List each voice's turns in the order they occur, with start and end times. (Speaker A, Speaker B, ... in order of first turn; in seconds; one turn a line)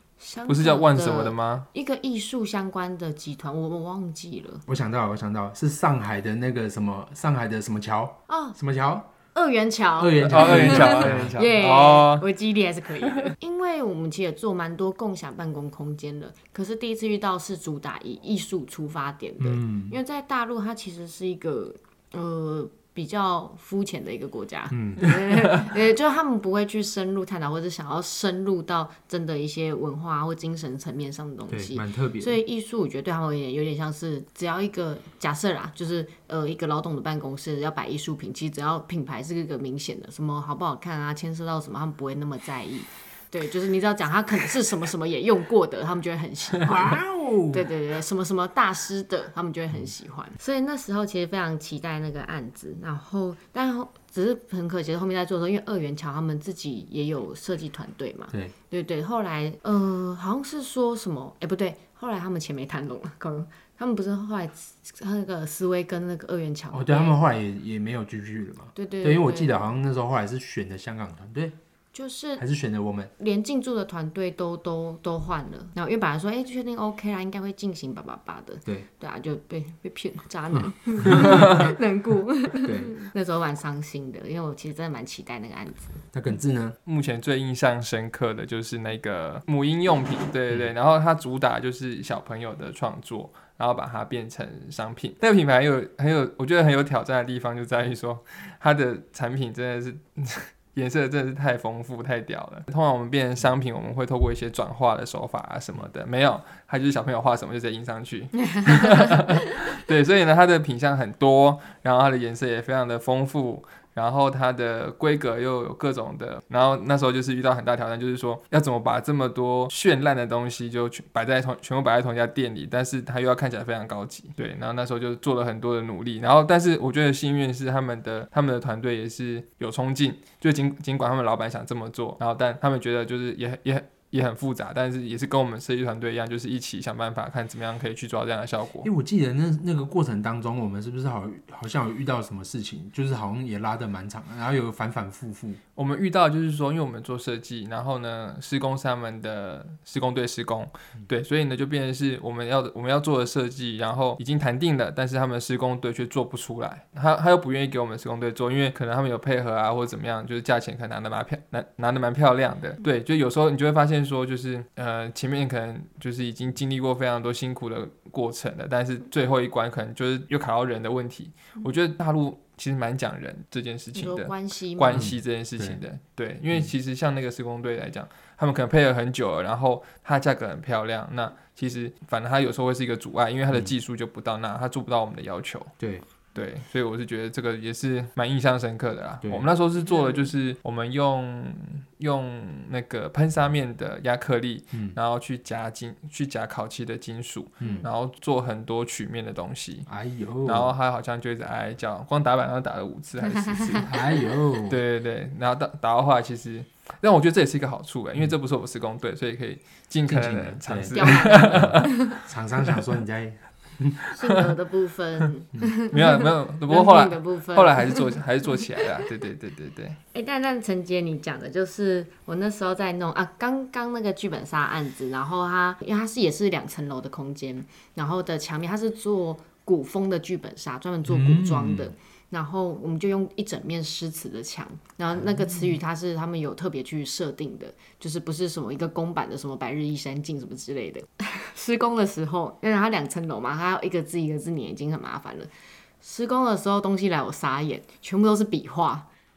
Speaker A: 0.2-4.6
Speaker B: 0.5-1.7
Speaker C: 4.7-9.1
Speaker A: 8.3-8.6
Speaker A: 9.3-67.2
Speaker C: 10.0-11.4
Speaker B: 10.2-12.2
Speaker C: 19.4-20.0
Speaker C: 24.7-25.1
Speaker C: 31.5-32.4
Speaker C: 46.6-47.7
Speaker C: 66.7-71.5
Speaker A: 68.7-69.6
Speaker A: 71.9-72.4
Speaker C: 72.4-73.1
Speaker A: 73.2-86.0
Speaker C: 80.5-81.7
Speaker C: 82.6-83.0
Speaker C: 86.1-86.8
Speaker B: 86.8-138.9
Speaker A: 108.4-109.5
Speaker C: 138.8-145.6
Speaker B: 145.8-185.7
Speaker A: 173.9-175.1
Speaker C: 174.9-175.8
Speaker C: 185.8-186.0
Speaker B: 186.3-199.9
Speaker C: 189.2-189.5
Speaker A: 189.9-190.3
Speaker C: 197.6-197.8
Speaker C: 199.9-200.7
Speaker B: 200.4-203.9
Speaker A: 203.3-203.8
Speaker C: 203.8-204.8
Speaker B: 204.7-211.9
Speaker C: 210.1-214.1
Speaker A: 210.9-212.2
Speaker A: 214.1-218.1
Speaker B: 215.9-220.0
Speaker A: 220.1-245.5
Speaker C: 231.1-231.9
Speaker C: 235.2-235.8
Speaker A: 246.0-249.1